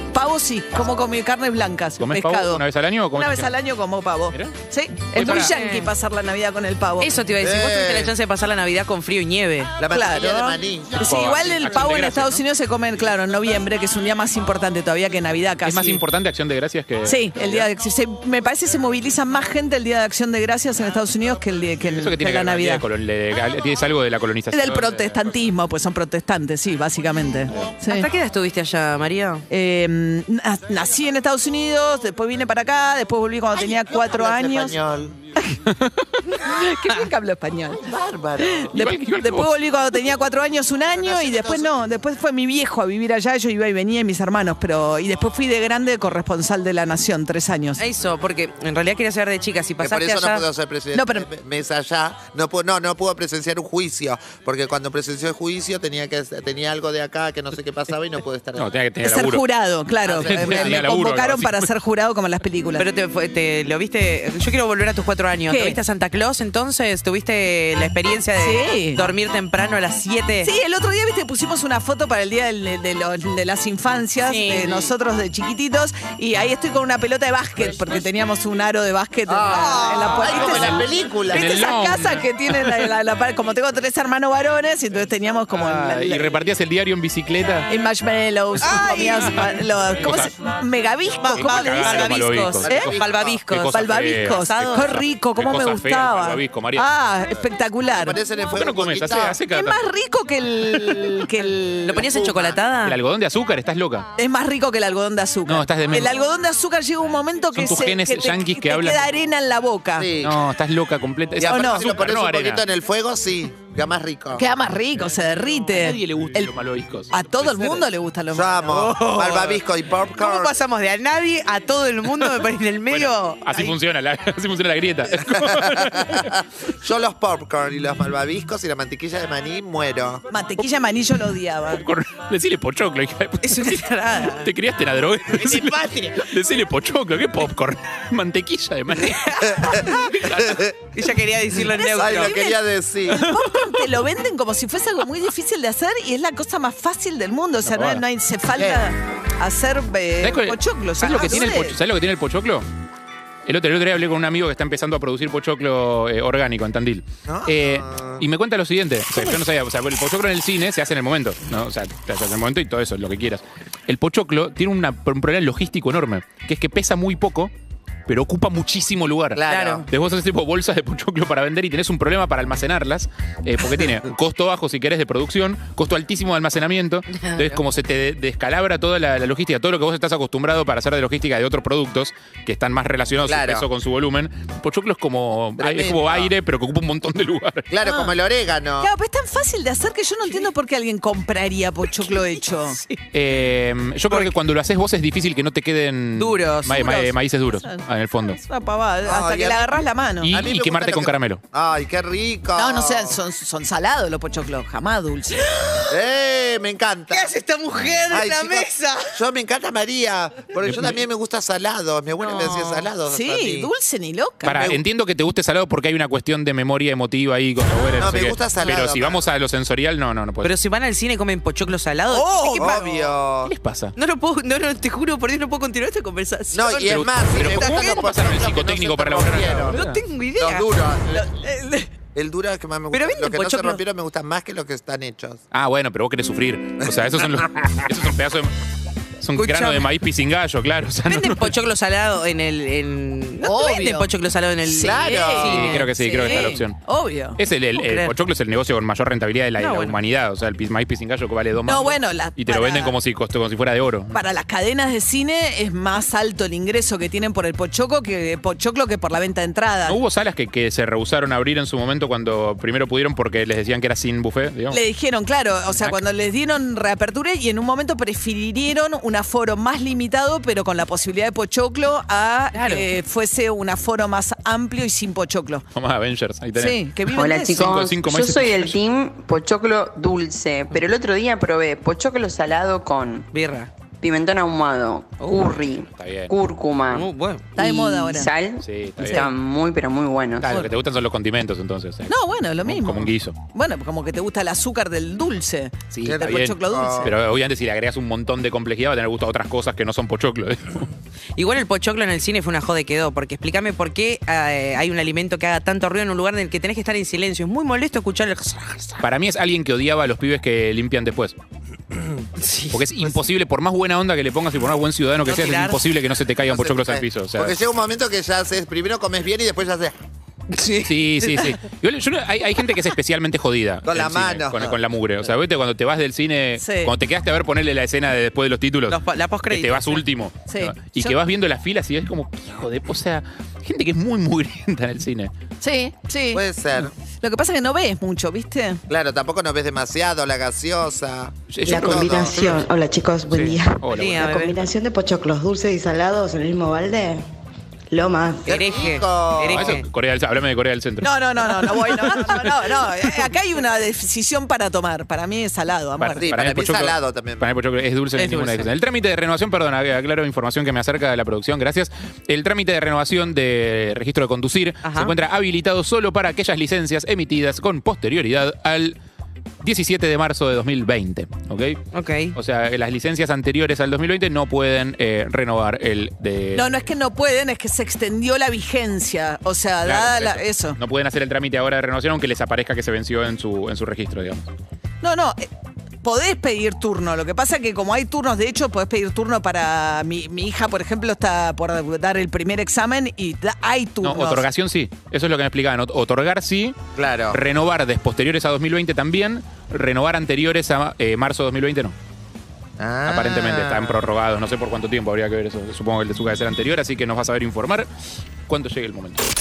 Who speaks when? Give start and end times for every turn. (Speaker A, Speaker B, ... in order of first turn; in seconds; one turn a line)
Speaker A: 0.1-7.1
Speaker B: 2.0-3.5
Speaker B: 5.1-5.5
Speaker C: 5.2-5.9
Speaker C: 7.0-9.7
Speaker D: 7.4-8.1
Speaker D: 9.8-11.0
Speaker A: 9.9-16.0
Speaker B: 11.0-12.4
Speaker B: 15.7-17.7
Speaker A: 17.1-22.8
Speaker B: 22.0-25.2
Speaker A: 24.5-28.1
Speaker C: 27.9-29.4
Speaker A: 29.5-34.8
Speaker D: 33.5-35.2
Speaker A: 36.3-37.9
Speaker D: 37.8-38.7
Speaker A: 38.4-47.8
Speaker B: 38.7-39.5
Speaker D: 41.0-41.7
Speaker C: 47.8-50.5
Speaker D: 49.8-58.7
Speaker A: 50.9-51.3
Speaker B: 58.6-59.4
Speaker A: 59.0-62.9
Speaker D: 60.1-60.8
Speaker B: 60.2-61.7
Speaker C: 62.8-70.5
Speaker A: 65.5-65.8
Speaker A: 68.4-69.0
Speaker A: 70.4-86.3
Speaker C: 74.3-74.9
Speaker D: 79.3-81.7
Speaker C: 79.5-80.6
Speaker B: 80.4-82.7
Speaker B: 85.5-87.7
Speaker A: 87.7-92.9
Speaker C: 88.6-89.5
Speaker B: 90.0-90.3
Speaker C: 91.2-94.9
Speaker B: 91.4-96.9
Speaker D: 92.7-93.4
Speaker A: 93.7-98.2
Speaker D: 97.9-99.4
Speaker B: 98.5-99.8
Speaker A: 99.5-102.1
Speaker C: 101.9-103.0
Speaker D: 102.0-102.6
Speaker B: 102.8-104.1
Speaker A: 104.2-110.1
Speaker B: 105.5-106.1
Speaker B: 107.5-109.0
Speaker D: 110.0-110.4
Speaker B: 110.2-112.6
Speaker D: 111.4-114.5
Speaker A: 111.5-111.9
Speaker A: 114.4-116.5
Speaker B: 115.7-117.9
Speaker A: 117.1-118.6
Speaker D: 118.3-120.5
Speaker C: 118.7-119.6
Speaker C: 120.2-123.7
Speaker B: 122.9-126.4
Speaker D: 125.2-130.2
Speaker A: 130.3-131.8
Speaker B: 131.8-140.6
Speaker C: 133.4-134.5
Speaker C: 135.3-136.3
Speaker C: 139.0-140.0
Speaker D: 140.4-140.8
Speaker C: 140.9-142.4
Speaker A: 141.8-151.8
Speaker D: 141.9-143.3
Speaker B: 147.7-148.0
Speaker D: 148.6-148.9
Speaker B: 150.2-152.7
Speaker B: 153.5-167.5
Speaker D: 157.2-158.2
Speaker B: 168.1-187.7
Speaker D: 169.3-169.9
Speaker C: 169.5-169.9
Speaker C: 177.2-177.6
Speaker D: 183.2-183.7
Speaker D: 185.6-186.3
Speaker D: 187.7-188.9
Speaker A: 187.8-188.1
Speaker A: 188.8-192.8
Speaker C: 192.0-193.0
Speaker B: 193.1-198.4
Speaker C: 194.1-194.4
Speaker C: 196.2-197.1
Speaker A: 196.8-200.3
Speaker D: 199.1-203.2
Speaker B: 200.2-201.4
Speaker A: 202.6-205.5
Speaker C: 205.6-205.9
Speaker D: 205.9-207.3
Speaker C: 207.1-209.2
Speaker D: 208.1-213.7
Speaker B: 210.6-211.0
Speaker C: 212.2-212.9
Speaker A: 213.1-214.8
Speaker B: 214.4-220.5
Speaker D: 218.0-219.3
Speaker C: 220.4-223.1
Speaker A: 222.1-222.8
Speaker D: 222.3-223.5
Speaker B: 223.4-223.9
Speaker C: 224.0-228.1
Speaker D: 226.5-231.3
Speaker B: 226.8-230.0
Speaker C: 229.7-231.9
Speaker D: 232.1-235.4
Speaker C: 232.9-233.8
Speaker B: 235.5-238.6
Speaker B: 239.2-241.5
Speaker C: 239.4-239.9
Speaker C: 241.1-246.5
Speaker D: 243.4-244.1
Speaker D: 244.7-245.8
Speaker A: 244.8-247.4
Speaker B: 245.4-246.8
Speaker B: 247.4-254.2
Speaker C: 247.8-248.2
Speaker C: 249.6-250.0
Speaker A: 251.7-253.0
Speaker A: 254.1-260.0
Speaker B: 259.9-264.8
Speaker A: 264.7-275.6
Speaker B: 275.8-278.8
Speaker A: 276.6-277.7
Speaker E: 277.1-283.3
Speaker C: 283.3-283.7
Speaker E: 284.0-290.6
Speaker B: 285.9-286.3
Speaker C: 286.9-287.5
Speaker A: 287.6-288.3
Speaker B: 288.6-289.3
Speaker B: 290.4-292.1
Speaker A: 292.1-297.1
Speaker B: 292.6-293.4
Speaker B: 295.9-300.9
Speaker D: 296.1-297.1
Speaker C: 301.4-309.0
Speaker B: 309.0-311.4
Speaker C: 312.4-313.2
Speaker B: 312.7-317.5
Speaker C: 315.2-315.8
Speaker D: 316.5-319.9
Speaker C: 320.5-321.6
Speaker B: 320.9-335.3
Speaker D: 323.9-324.8
Speaker A: 326.6-326.9
Speaker C: 328.9-330.0
Speaker A: 330.5-331.2
Speaker A: 335.6-336.4
Speaker D: 336.3-336.9
Speaker A: 337.2-338.8
Speaker D: 338.9-342.4
Speaker B: 341.5-342.7
Speaker F: 341.7-347.2
Speaker B: 343.3-344.3
Speaker C: 343.9-344.6
Speaker F: 347.9-348.4
Speaker D: 348.4-349.8
Speaker C: 348.5-349.9
Speaker B: 349.5-352.9
Speaker A: 351.0-356.3
Speaker D: 356.0-357.5
Speaker B: 356.1-369.0
Speaker C: 358.2-358.7
Speaker C: 364.8-365.1
Speaker B: 369.6-371.8
Speaker C: 371.9-372.4
Speaker B: 372.4-376.7
Speaker A: 376.6-380.8
Speaker B: 379.9-384.5
Speaker A: 385.0-385.5
Speaker A: 386.0-394.4
Speaker B: 394.0-396.8
Speaker D: 397.0-397.4
Speaker B: 397.3-401.9
Speaker D: 402.8-404.0
Speaker B: 403.1-407.9
Speaker B: 408.5-409.2